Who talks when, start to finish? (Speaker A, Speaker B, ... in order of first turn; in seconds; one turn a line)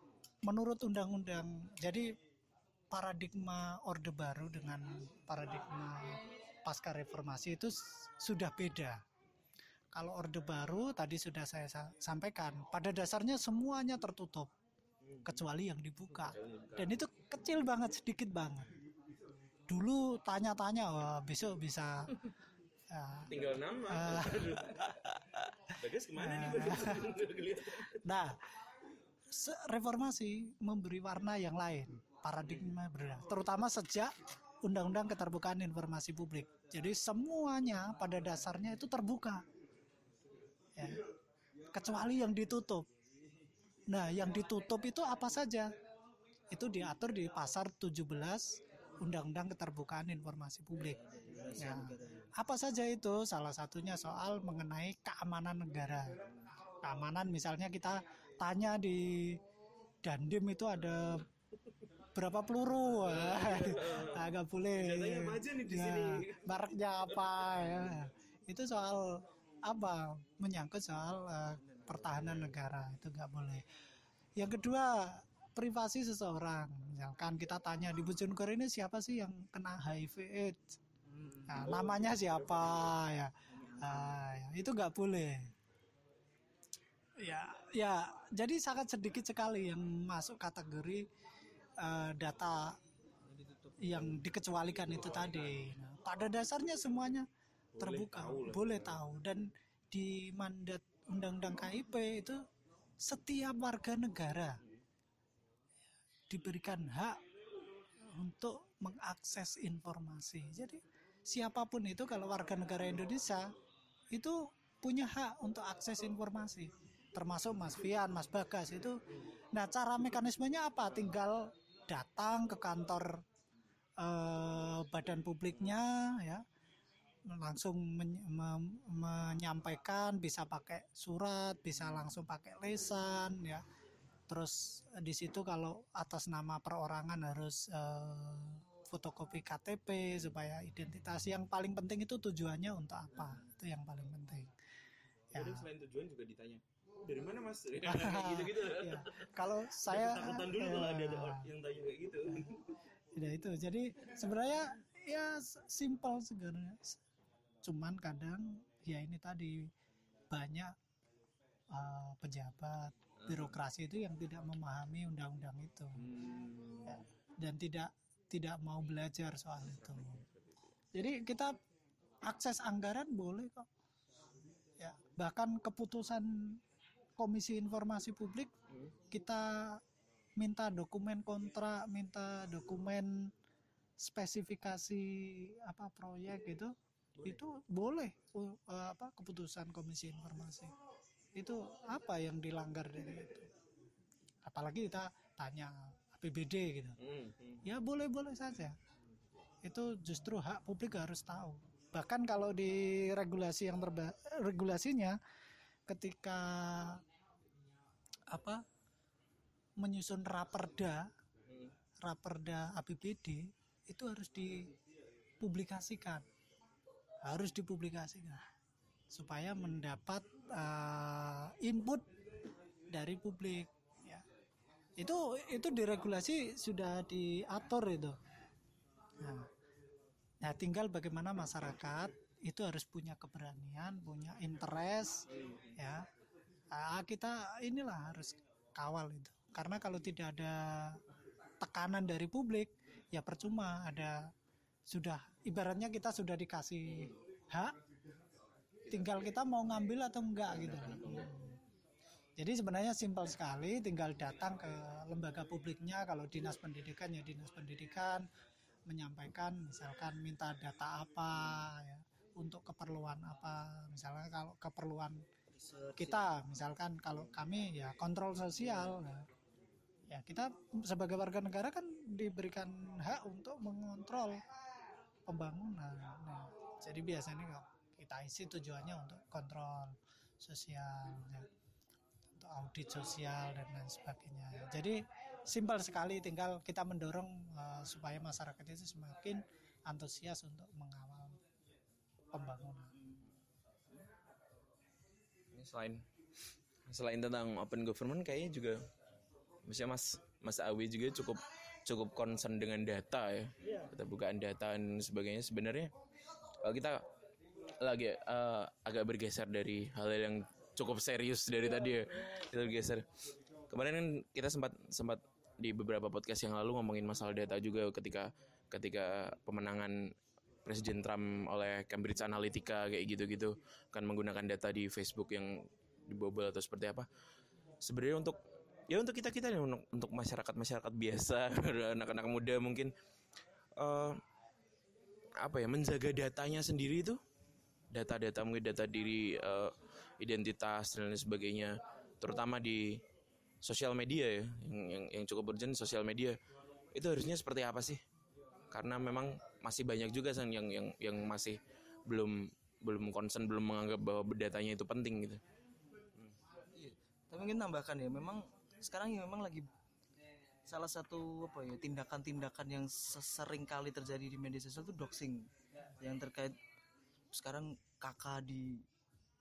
Speaker A: 0.5-2.1
Speaker A: 2.9-9.0
Speaker A: 9.9-14.5
Speaker B: 15.1-15.4
Speaker A: 15.2-18.7
Speaker B: 16.3-17.0
Speaker A: 19.7-22.1
Speaker A: 22.9-24.7
Speaker B: 23.3-28.0
Speaker A: 26.1-27.1
Speaker A: 28.0-28.4
Speaker A: 29.3-39.5
Speaker A: 40.8-41.0
Speaker A: 41.7-42.9
Speaker A: 43.9-45.7
Speaker A: 46.5-51.0
Speaker C: 50.8-52.3
Speaker A: 51.5-56.2
Speaker A: 56.8-59.4
Speaker A: 60.0-61.3
Speaker A: 62.1-73.7
Speaker B: 62.9-66.6
Speaker B: 67.3-68.0
Speaker A: 74.4-80.6
Speaker C: 81.1-81.7
Speaker A: 81.5-85.5
Speaker C: 83.5-84.2
Speaker A: 87.2-91.1
Speaker A: 91.8-92.8
Speaker C: 93.3-93.9
Speaker A: 93.8-102.4
Speaker B: 94.8-95.6
Speaker B: 97.8-99.0
Speaker A: 103.0-104.6
Speaker A: 106.3-107.2
Speaker A: 108.0-113.5
Speaker A: 114.1-119.0
Speaker A: 119.5-123.2
Speaker A: 124.0-126.4
Speaker A: 127.3-133.6
Speaker A: 134.3-144.5
Speaker A: 145.3-145.7
Speaker B: 145.3-152.8
Speaker A: 147.8-151.5
Speaker A: 153.2-157.0
Speaker A: 157.6-159.7
Speaker A: 160.3-160.8
Speaker A: 161.7-166.0
Speaker B: 163.2-163.6
Speaker B: 166.0-167.0
Speaker A: 166.8-170.2
Speaker B: 169.8-170.3
Speaker A: 170.9-171.6
Speaker A: 172.2-173.7
Speaker A: 174.8-176.6
Speaker A: 177.2-178.5
Speaker A: 179.1-179.8
Speaker A: 180.4-183.3
Speaker A: 184.0-190.7
Speaker A: 191.4-193.5
Speaker A: 194.5-197.0
Speaker B: 197.0-197.6
Speaker A: 197.6-198.8
Speaker A: 199.6-205.2
Speaker A: 205.9-207.0
Speaker A: 208.3-208.6
Speaker A: 209.8-211.1
Speaker A: 212.0-214.7
Speaker A: 215.4-216.3
Speaker A: 217.2-218.4
Speaker A: 219.1-222.1
Speaker A: 222.9-224.2
Speaker A: 225.0-228.2
Speaker A: 229.2-229.5
Speaker A: 230.4-236.1
Speaker A: 236.7-241.0
Speaker A: 241.6-244.3
Speaker A: 244.9-247.8
Speaker B: 248.9-249.3
Speaker A: 248.9-251.6
Speaker B: 250.5-251.3
Speaker A: 252.4-258.3
Speaker A: 258.9-265.2
Speaker C: 265.6-266.1
Speaker A: 266.0-269.3
Speaker A: 270.1-274.4
Speaker A: 275.3-281.5
Speaker A: 282.4-291.4
Speaker A: 292.3-292.9
Speaker B: 295.5-296.1
Speaker B: 296.9-298.8
Speaker B: 299.7-305.9
Speaker B: 306.6-307.1
Speaker B: 307.8-313.1
Speaker B: 313.7-327.1
Speaker B: 327.8-332.9
Speaker B: 333.8-334.2
Speaker B: 335.4-337.2
Speaker B: 337.9-343.0
Speaker B: 343.6-346.4
Speaker B: 346.9-348.0
Speaker B: 348.7-355.4
Speaker C: 356.8-359.7
Speaker C: 360.7-365.5
Speaker C: 366.0-366.6
Speaker C: 367.3-368.8